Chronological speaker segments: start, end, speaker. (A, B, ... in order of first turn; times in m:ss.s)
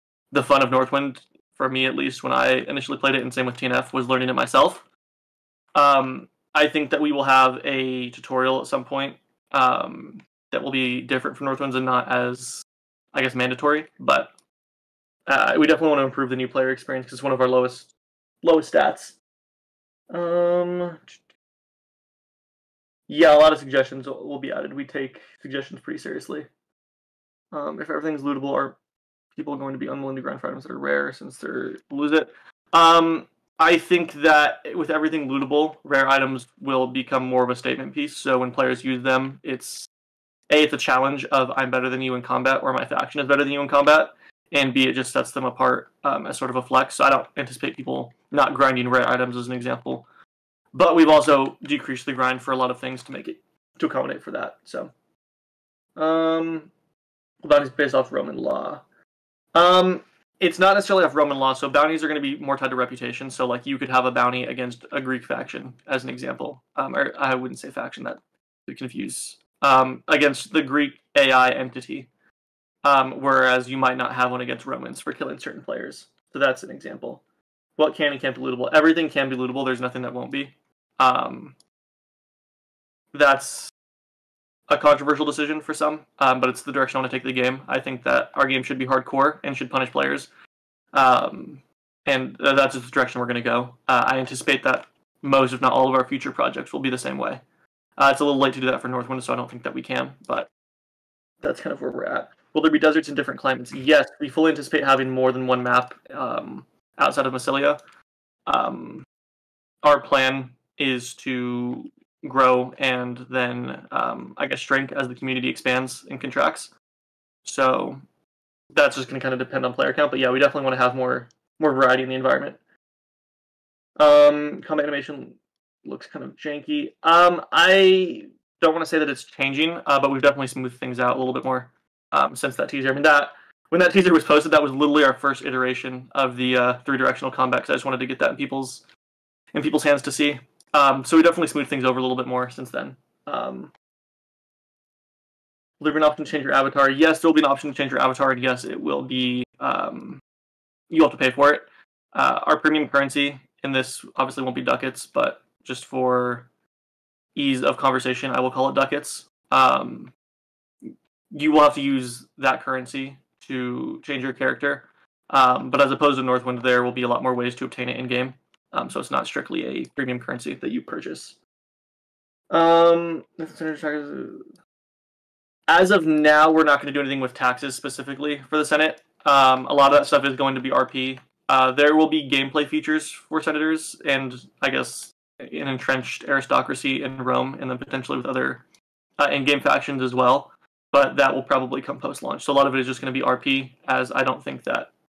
0:00.3-0:04.8 A
0:05.8-0:14.3 A
0:15.3-0:17.9 A
0:18.4-0:19.2 A
0:20.1-0:21.1 A
0:23.1-0:26.5 A
0:27.5-0:28.8 A
0:29.4-0:39.9 A
0:40.5-0:50.1 A
0:50.7-0:54.9 A
0:56.0-0:56.7 A
0:57.4-0:58.8 A
0:59.5-1:12.1 A
1:12.8-1:17.2 A
1:17.8-1:21.6 A
1:23.1-1:23.7 A
1:24.7-1:30.3 A
1:30.9-1:37.4 A
1:38.0-1:40.5 A
1:41.4-1:47.8 A
1:48.5-1:49.1 A
1:49.8-1:56.7 A
1:57.4-1:58.0 A
1:58.7-2:02.6 A
2:04.0-2:18.8 A
2:19.5-2:23.7 A
2:25.8-2:30.2 A
2:30.9-2:36.5 A
2:37.4-2:40.1 A
2:41.3-2:51.4 A
2:52.5-2:54.5 A
2:55.7-3:08.6 A
3:09.2-3:14.9 A